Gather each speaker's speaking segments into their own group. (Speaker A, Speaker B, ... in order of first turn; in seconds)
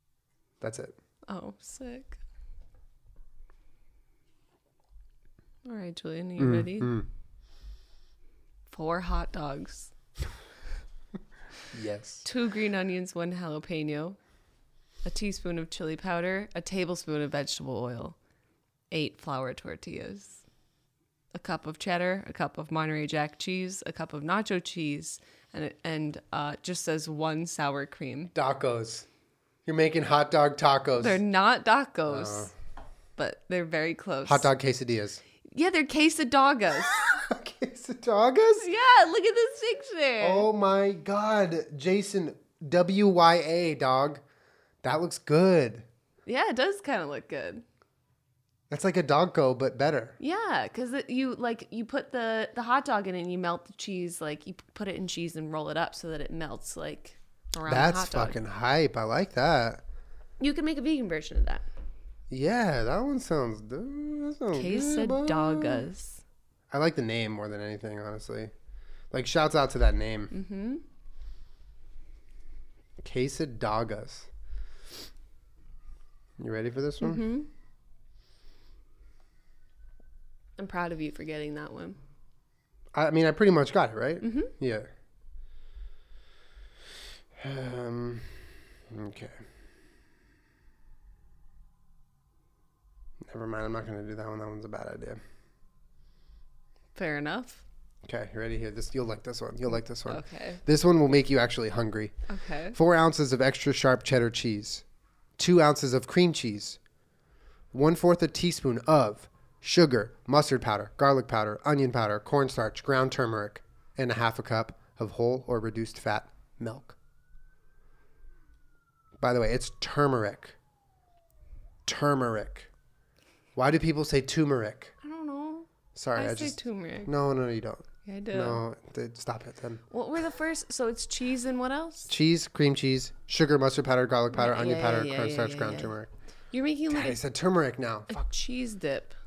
Speaker A: 0.6-0.9, 6.4-7.1, 11.7-12.2, 28.3-29.1, 29.6-31.2, 32.1-32.5, 34.2-35.2, 37.0-38.7, 40.2-44.2, 44.8-45.9, 48.7-50.2, 57.6-59.8, 62.3-65.8, 66.7-68.5, 69.1-70.3, 73.0-74.3, 76.4-77.3, 82.9-84.9, 87.4-88.3, 88.9-89.4, 93.3-95.2, 98.0-102.1, 102.7-104.8, 105.4-106.8, 107.7-117.0, 119.2-120.5, 121.9-122.7, 123.5-124.9, 125.9-129.8, 132.1-136.1, 136.9-138.2
Speaker B: 1.3-2.2, 5.6-6.9, 8.7-9.9, 12.2-14.2, 15.0-18.2, 18.9-20.4, 21.3-28.3, 31.0-32.5, 33.2-34.5, 35.5-37.0, 38.6-40.5, 46.2-47.6, 50.2-58.4, 60.4-61.6, 64.5-66.2, 70.3-70.8, 77.0-77.5, 80.6-82.0, 84.2-84.5, 96.9-97.6, 100.1-100.6, 102.3-102.8, 125.0-127.1, 128.0-128.6, 129.9-132.1, 134.3-135.9, 136.5-137.2, 138.1-139.1